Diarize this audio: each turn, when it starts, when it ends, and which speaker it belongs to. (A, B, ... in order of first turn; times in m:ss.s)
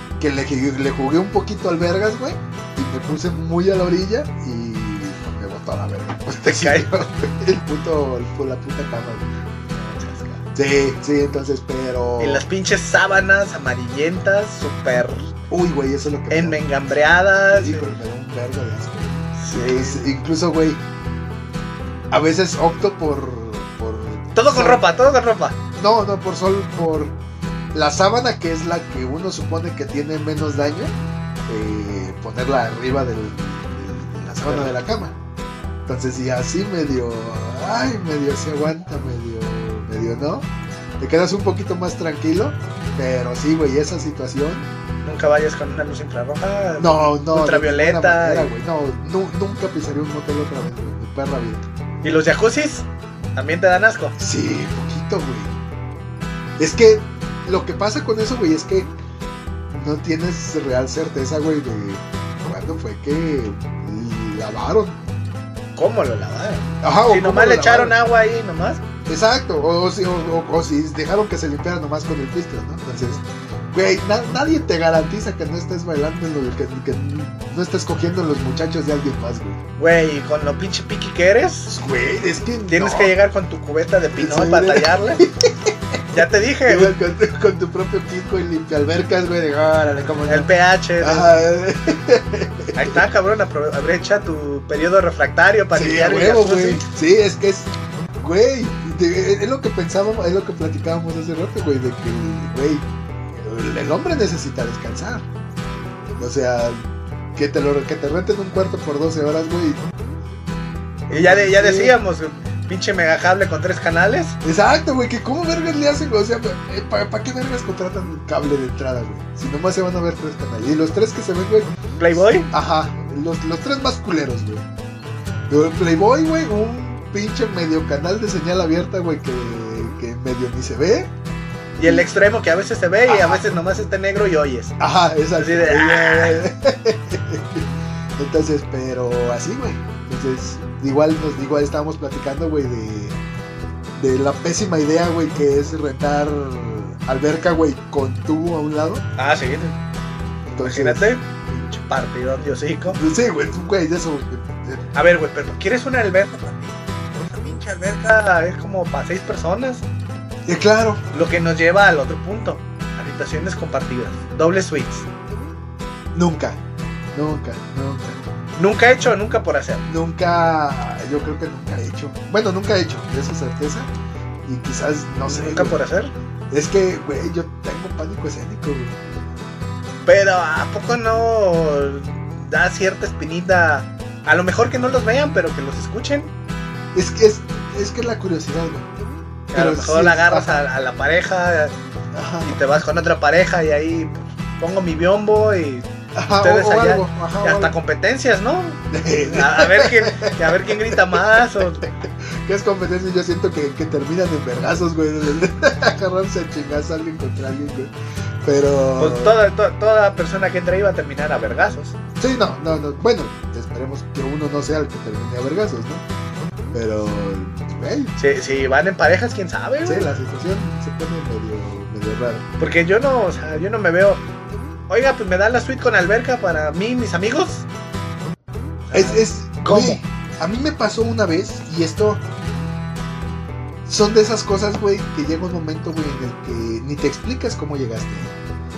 0:00.2-0:09.3 A
0:06.4-0:07.0 B
0:09.7-0:10.4 B
0:10.5-0:12.4 A
0:12.2-0:15.3 B
0:15.5-0:16.6 A
0:16.3-0:17.9 B
0:17.5-0:20.8 A
0:19.4-0:20.0 B
0:22.1-0:24.8 A
0:24.3-0:25.6 B
0:25.7-0:27.1 A
0:27.7-0:30.9 A
0:31.5-0:35.2 A
0:34.5-0:34.8 B
0:35.8-0:40.5 A
0:41.0-0:44.7 A
0:45.0-0:48.5 B
0:46.8-0:51.6 A
0:52.0-0:54.1 B
0:54.2-0:55.5 A
0:56.6-0:58.9 A
0:59.7-1:05.0 A
1:05.8-1:08.8 B
1:06.8-1:08.0 A
1:09.1-1:13.2 A
1:13.7-1:19.6 A
1:19.8-1:21.7 B
1:21.7-1:23.2 A
1:22.7-1:25.2 B
1:24.1-1:33.0 A
1:26.1-1:27.0 B
1:30.2-1:31.4 B
1:32.7-1:36.8 B
1:35.7-1:45.2 A
1:46.2-1:46.8 A
1:47.3-1:49.8 A
1:51.1-1:52.0 A
1:51.1-1:54.4 B
1:54.4-2:04.6 A
2:02.0-2:02.5 B
2:05.5-2:11.1 A
2:11.8-2:14.8 B
2:11.8-2:12.1 A
2:13.0-2:13.4 A
2:14.8-2:17.6 A
2:15.4-2:16.4 B
2:18.2-2:23.2 A
2:24.0-2:29.0 A
2:29.2-2:29.8 B
2:30.5-2:31.1 A
2:30.5-2:33.0 B
2:32.9-2:34.9 A
2:34.9-2:39.8 B
2:40.4-2:41.0 A
2:41.1-2:45.1 B
2:46.1-2:46.6 A
2:47.1-2:48.2 A
2:48.6-2:49.9 B
2:49.9-2:53.9 A
2:54.4-2:55.8 A
2:55.3-2:56.1 B
2:56.5-2:59.0 A
3:00.0-3:06.3 B
3:06.9-3:08.9 A
3:09.5-3:11.7 B
3:09.5-3:10.6 A
3:12.1-3:12.5 A
3:12.4-3:21.8 B
3:16.1-3:17.7 A
3:18.9-3:21.8 A
3:22.4-3:27.9 A
3:28.4-3:29.4 A
3:29.0-3:32.0 B
3:32.2-3:36.0 A
3:36.7-3:38.1 A
3:38.2-3:40.1 B
3:39.8-3:42.4 A
3:42.6-3:44.2 B
3:44.9-3:47.6 B
3:48.8-3:50.0 B
3:48.9-3:52.2 A
3:53.8-3:58.4 A